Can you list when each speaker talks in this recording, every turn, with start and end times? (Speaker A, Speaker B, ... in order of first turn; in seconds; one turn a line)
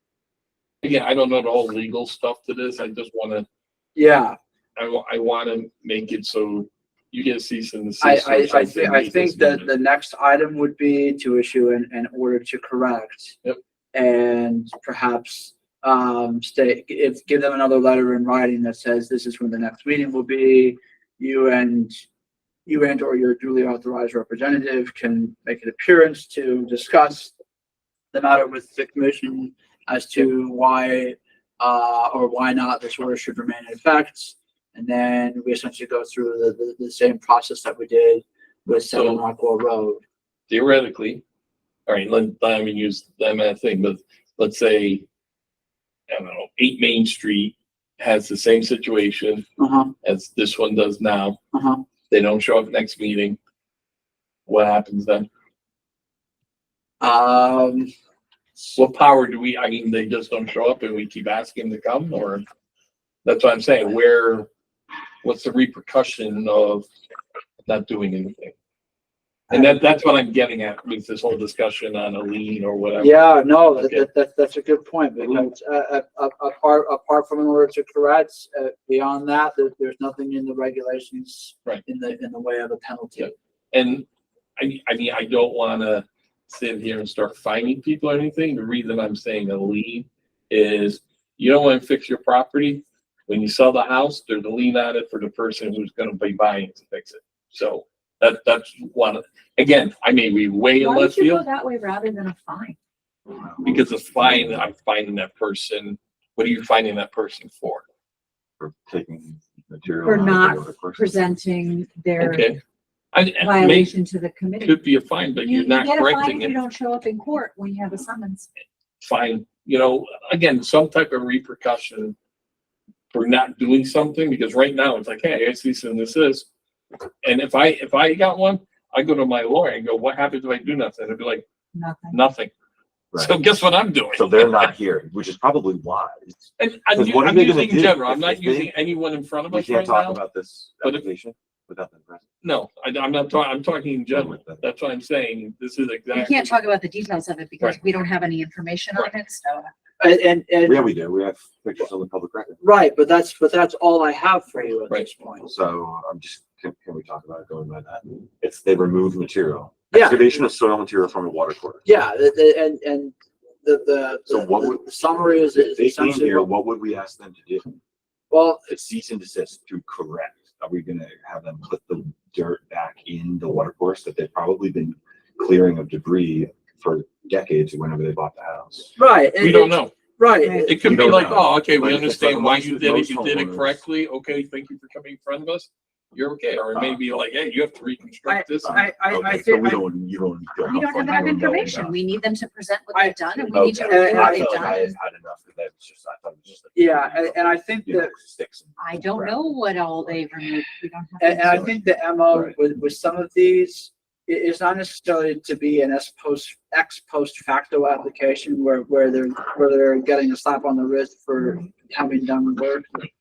Speaker A: 0.8-3.5
Speaker B: 4.0-4.4
Speaker A: 4.8-9.7
Speaker B: 8.0-13.3
Speaker B: 13.9-22.0
Speaker B: 22.7-27.3
Speaker B: 28.1-40.0
Speaker A: 38.8-39.2
Speaker A: 40.5-41.2
Speaker A: 41.9-45.0
Speaker A: 46.1-49.5
Speaker B: 49.6-49.9
Speaker A: 50.0-51.4
Speaker B: 51.5-51.8
Speaker A: 52.1-53.4
Speaker A: 54.5-55.3
Speaker B: 57.0-57.9
Speaker A: 58.8-62.5
Speaker A: 63.2-64.5
Speaker A: 65.2-66.9
Speaker A: 67.7-68.5
Speaker A: 69.5-73.2
Speaker B: 73.0-83.3
Speaker A: 73.8-74.0
Speaker A: 83.2-84.0
Speaker A: 84.6-101.4
Speaker C: 100.8-102.8
Speaker D: 103.3-104.7
Speaker A: 103.6-107.8
Speaker D: 108.6-111.4
Speaker C: 110.0-112.5
Speaker A: 112.2-112.6
Speaker A: 113.1-113.9
Speaker C: 113.4-114.8
Speaker A: 114.6-116.5
Speaker C: 115.4-118.5
Speaker A: 119.0-122.2
Speaker A: 123.1-126.5
Speaker A: 127.2-131.4
Speaker C: 131.8-132.2
Speaker A: 132.1-132.5
Speaker D: 133.1-133.4
Speaker A: 133.2-134.7
Speaker D: 134.1-138.8
Speaker A: 136.6-140.2
Speaker D: 139.5-142.2
Speaker A: 142.4-146.6
Speaker D: 144.1-144.6
Speaker C: 146.1-149.7
Speaker B: 150.0-150.8
Speaker D: 150.6-152.6
Speaker B: 152.6-155.5
Speaker D: 155.4-161.9
Speaker B: 159.9-160.4
Speaker B: 161.8-166.5
Speaker D: 164.3-167.8
Speaker B: 168.3-168.7
Speaker D: 168.7-178.9
Speaker B: 179.0-181.1
Speaker A: 179.4-180.1
Speaker C: 180.4-180.9
Speaker A: 180.6-188.9
Speaker D: 180.8-183.8
Speaker D: 186.8-187.0
Speaker B: 188.3-189.8
Speaker D: 188.7-192.0
Speaker C: 190.7-194.9
Speaker B: 192.9-194.8
Speaker D: 193.5-200.2
Speaker B: 196.8-198.1
Speaker C: 198.8-201.7
Speaker B: 201.2-213.1